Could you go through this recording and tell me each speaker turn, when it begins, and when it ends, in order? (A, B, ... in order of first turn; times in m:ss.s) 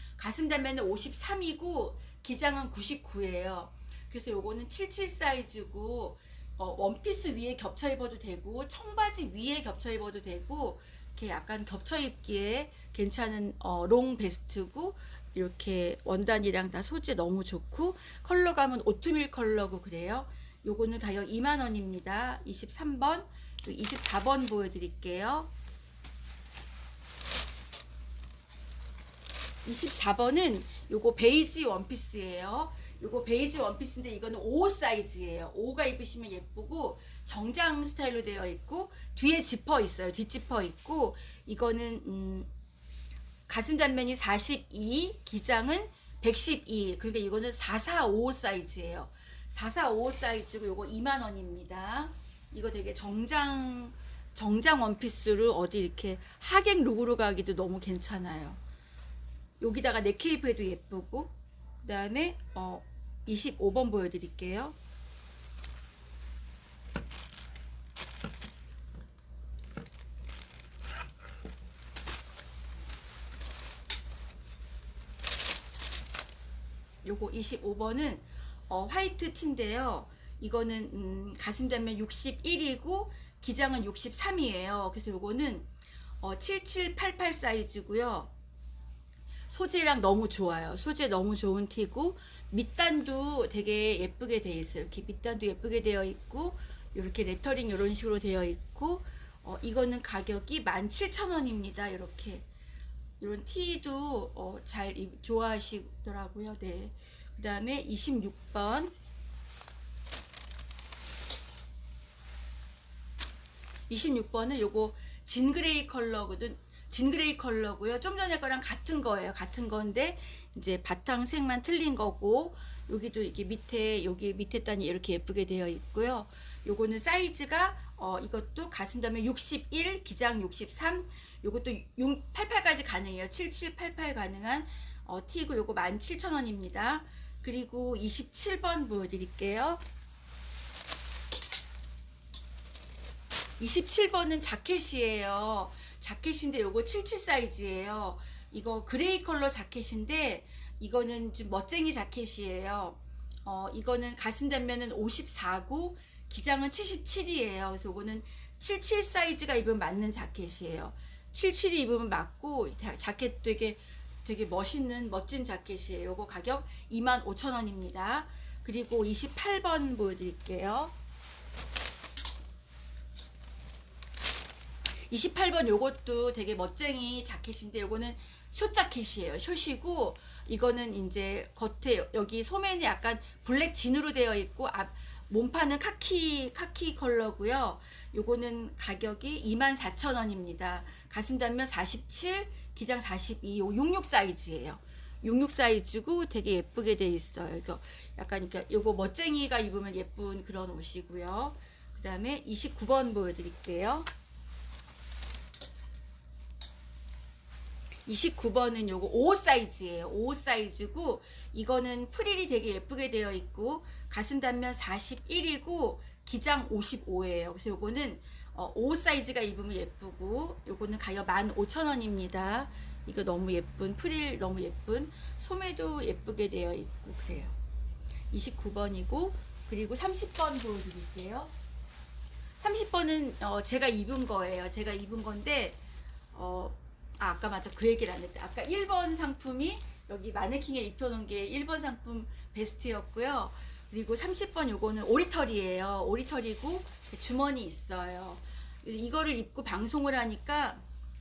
0:00.2-0:25.5 A
0:29.6-0:42.5 A
0:43.5-0:58.6 A
0:59.6-1:04.8 A
1:17.0-1:25.7 A
1:26.2-1:28.3 A
1:29.5-1:42.4 A
1:43.2-1:48.9 A
1:53.9-2:19.8 A
2:23.6-2:50.9 A
2:55.1-3:24.1 A
3:28.0-3:47.6 A
3:48.3-3:51.5 A
3:52.6-3:55.8 A
3:56.3-4:10.8 A